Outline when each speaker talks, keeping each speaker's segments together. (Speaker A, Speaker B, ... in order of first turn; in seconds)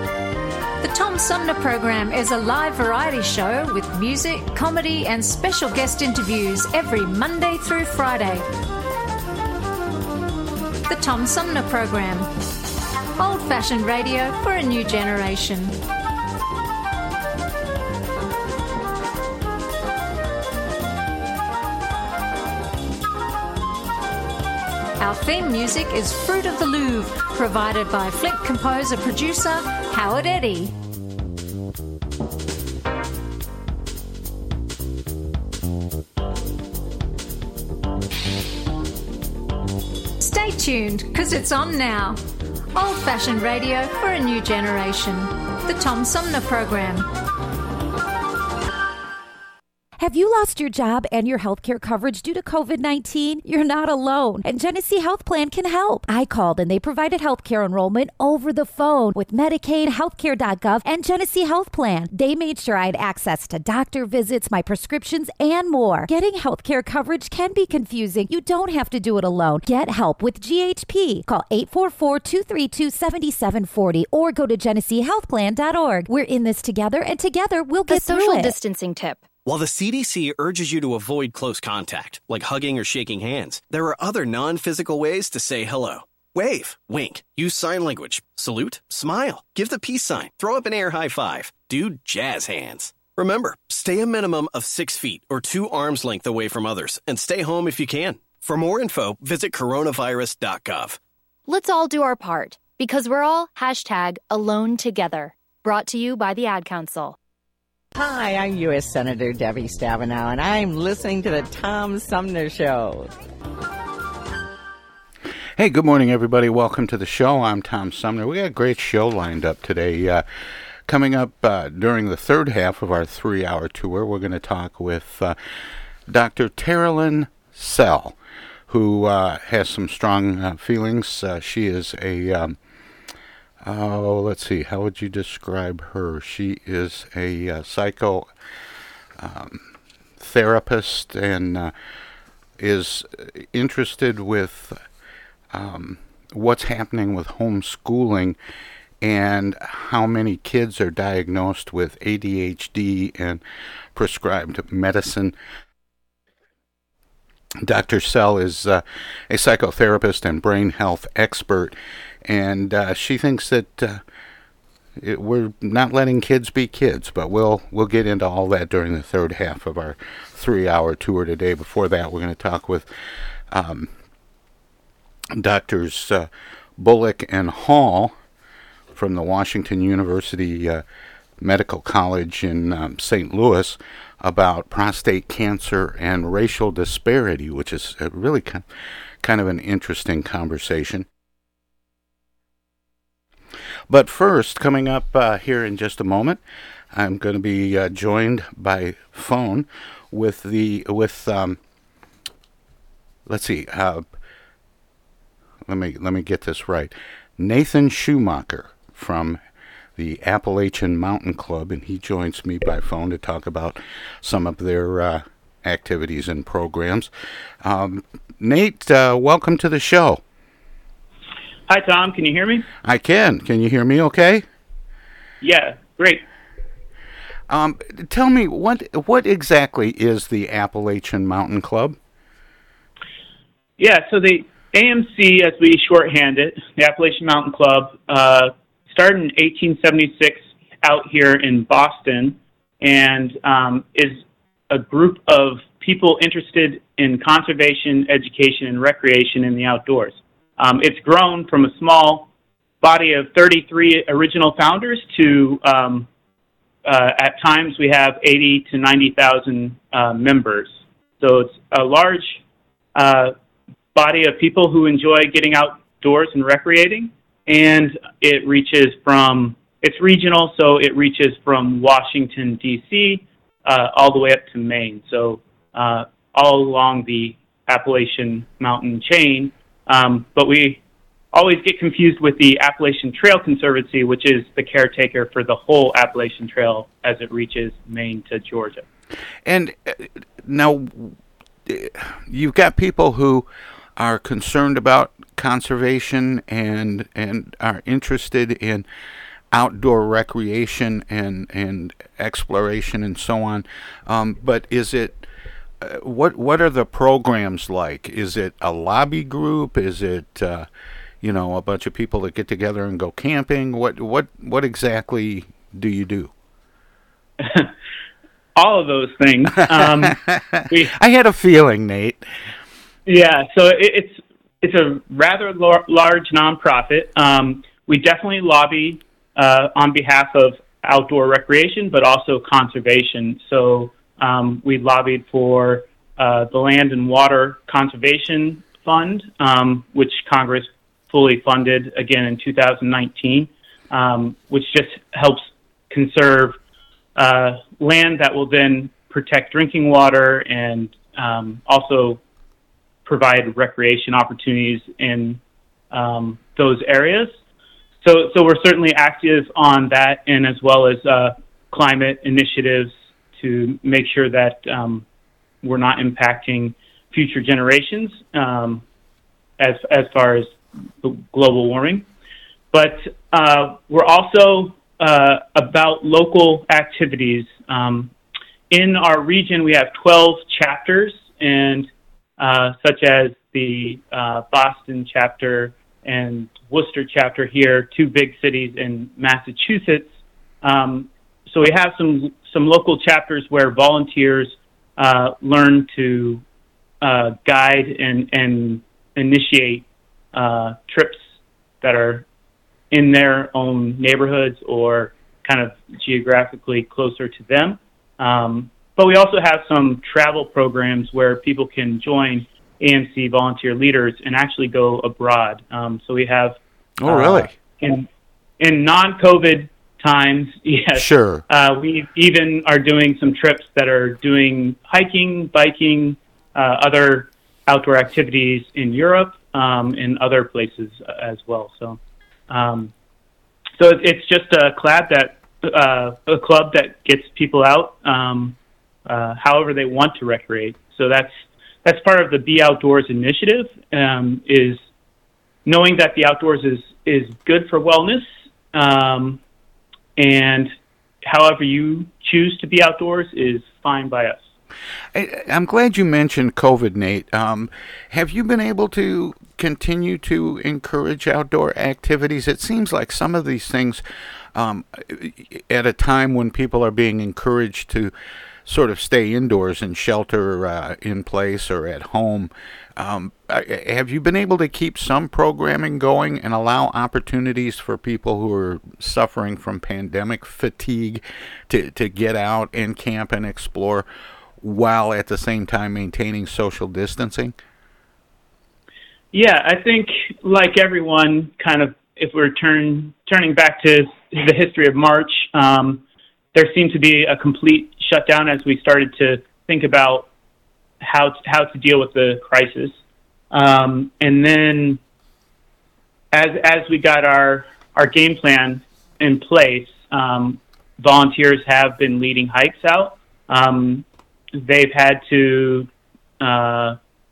Speaker A: 0.8-8.5, 10.9-12.3, 13.2-15.8, 25.0-30.7, 40.2-42.2, 42.8-47.1
Speaker B: 50.0-78.5
Speaker C: 77.9-79.3, 101.5-107.2
Speaker D: 79.5-101.0
Speaker E: 108.0-113.1
Speaker F: 115.6-120.2, 120.9-125.4, 126.1-128.2, 128.7-132.6, 133.6-138.3, 139.2-139.7, 140.2-141.7, 142.6-144.8, 145.5-148.4, 149.0-153.4, 153.9-155.3, 157.6-164.0, 165.0-172.9, 173.5-173.9, 175.4-178.1, 178.9-180.8, 181.4-188.7, 189.2-191.1, 193.9-196.4, 196.9-201.6, 203.3-204.1, 205.7-209.4, 210.0-217.1, 217.6-220.2, 222.8-224.4, 227.5-232.0, 289.4-298.9, 299.5-305.3, 305.8-310.7, 311.2-316.3, 319.7-322.3, 417.0-417.5, 421.0-421.4, 455.1-464.0, 464.5-468.1, 468.6-484.1, 484.6-487.5
Speaker G: 221.7-222.7, 225.4-226.2, 233.8-252.3, 252.8-256.1, 256.9-262.4, 262.9-263.3, 263.9-280.8, 281.3-288.9, 317.4-317.7, 318.6-320.2, 323.1-346.6, 347.2-352.2, 353.1-355.4, 355.9-357.3, 358.0-365.1, 365.6-368.8, 369.6-372.1, 372.7-378.1, 378.7-396.4, 397.0-401.2, 401.8-402.2, 402.9-418.1, 418.6-432.9, 433.8-438.6, 439.1-444.8, 445.7-449.4, 450.2-450.7, 451.2-454.4, 489.3-496.0, 496.5-500.3, 501.0-503.0, 503.5-505.0, 506.3-515.9, 516.4-517.0